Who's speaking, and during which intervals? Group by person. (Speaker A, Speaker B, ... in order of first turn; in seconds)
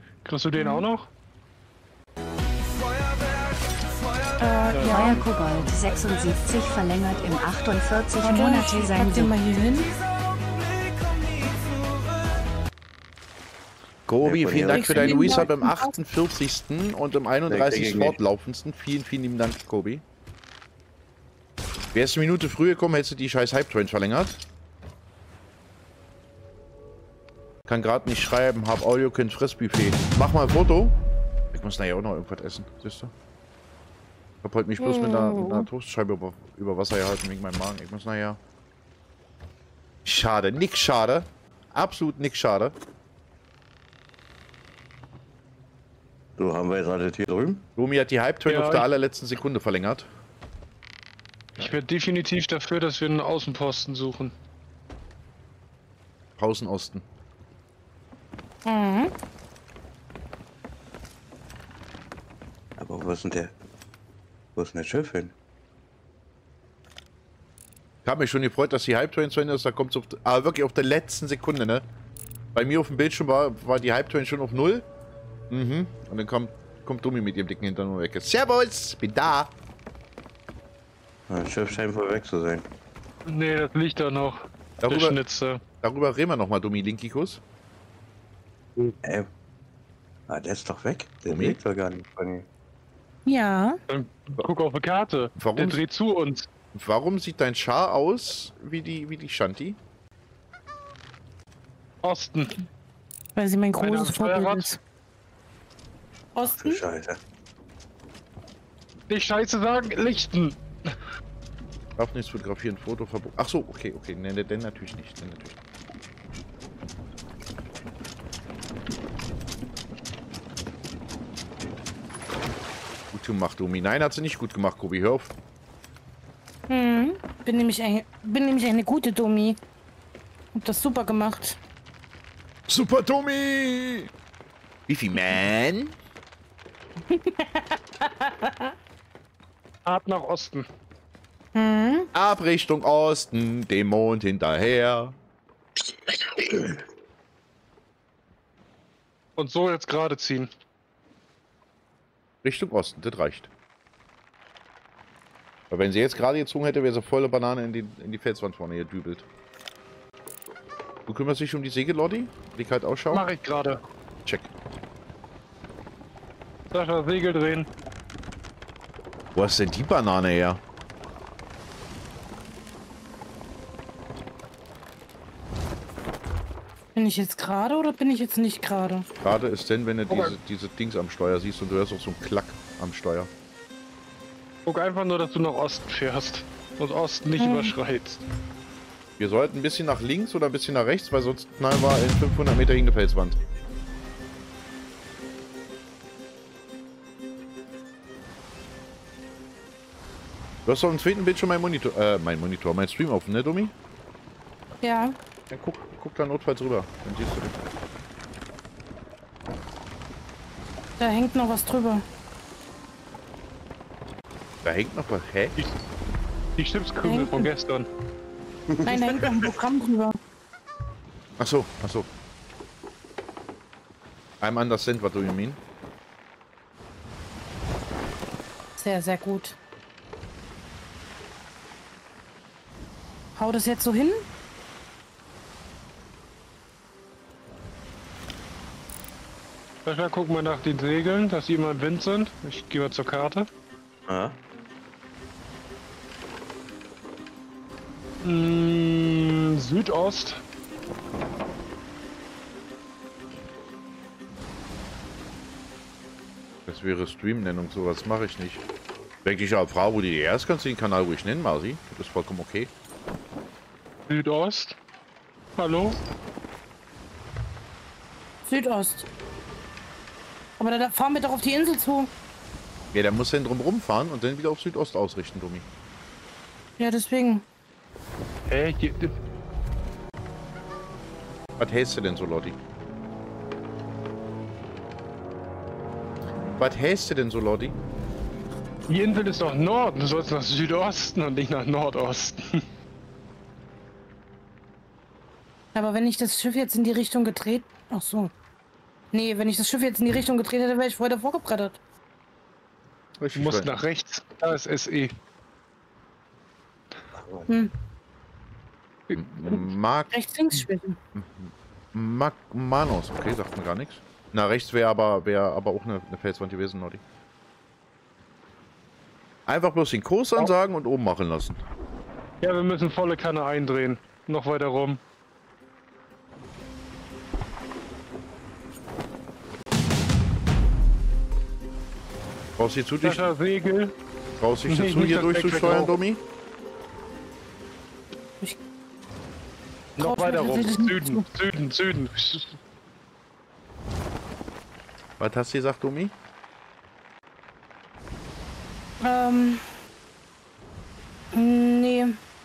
Speaker A: 0.2-1.1, 4.7-5.1, 48.5-48.8, 51.6-54.3, 83.2-85.6, 93.9-96.5, 102.0-102.7, 103.8-104.7, 109.1-110.9, 139.8-140.7, 149.4-150.5, 163.1-163.8, 166.7-167.7, 184.7-188.2, 216.6-217.9, 239.8-243.5, 248.2-250.4, 264.1-264.8, 265.6-265.9, 278.4-279.1, 288.9-292.6, 303.3-305.1, 322.4-325.0, 333.0-333.9, 334.7-335.9, 340.0-342.6
Speaker B: 0.6-0.8, 4.4-5.2, 8.2-9.9, 14.7-15.9, 34.8-35.7, 58.6-59.1, 93.2-93.8, 103.3-104.8, 106.3-106.8, 126.7-129.6, 130.5-131.6, 137.1-138.7, 141.5-142.1, 176.9-179.1, 187.4-187.7, 204.8-205.2, 211.0-212.0, 217.0-217.5, 218.8-220.2, 228.8-229.6, 233.3-234.2, 268.4-269.1, 270.6-272.1, 276.8-277.4, 295.7-298.3, 299.1-301.8, 310.1-311.0, 340.0-341.2, 349.0-349.6, 351.3-352.2
Speaker C: 4.8-9.3
Speaker D: 14.1-20.0, 21.9-24.4, 27.6-30.9, 31.5-33.1, 34.4-38.4, 40.0-42.7, 47.8-50.1, 56.4-57.0, 68.0-71.8, 72.5-74.8, 75.5-79.5, 84.8-85.2, 85.8-87.4, 91.3-91.6, 95.4-95.8, 96.7-99.8, 112.0-115.6, 123.1-125.3, 132.7-134.1, 134.9-135.9, 142.1-145.2, 152.4-153.5, 155.7-159.3, 161.1-163.3, 164.2-164.5, 169.3-170.6, 179.2-183.3, 189.2-193.4, 200.6-203.7, 205.5-207.6, 214.6-215.6, 221.4-222.1, 224.4-225.6, 256.7-258.6, 259.2-262.7, 272.9-275.6, 281.6-282.6, 286.6-287.8, 303.2-303.7, 309.1-310.1, 311.1-317.0, 319.5-321.6, 332.6-333.2, 334.4-336.2, 345.2-346.1
Speaker E: 14.2-15.5, 17.5-18.2, 46.4-47.6, 62.8-63.5, 64.5-65.3, 81.3-82.7, 88.8-89.3, 90.3-92.5, 106.5-107.2, 218.7-219.5, 244.1-244.4, 307.1-307.5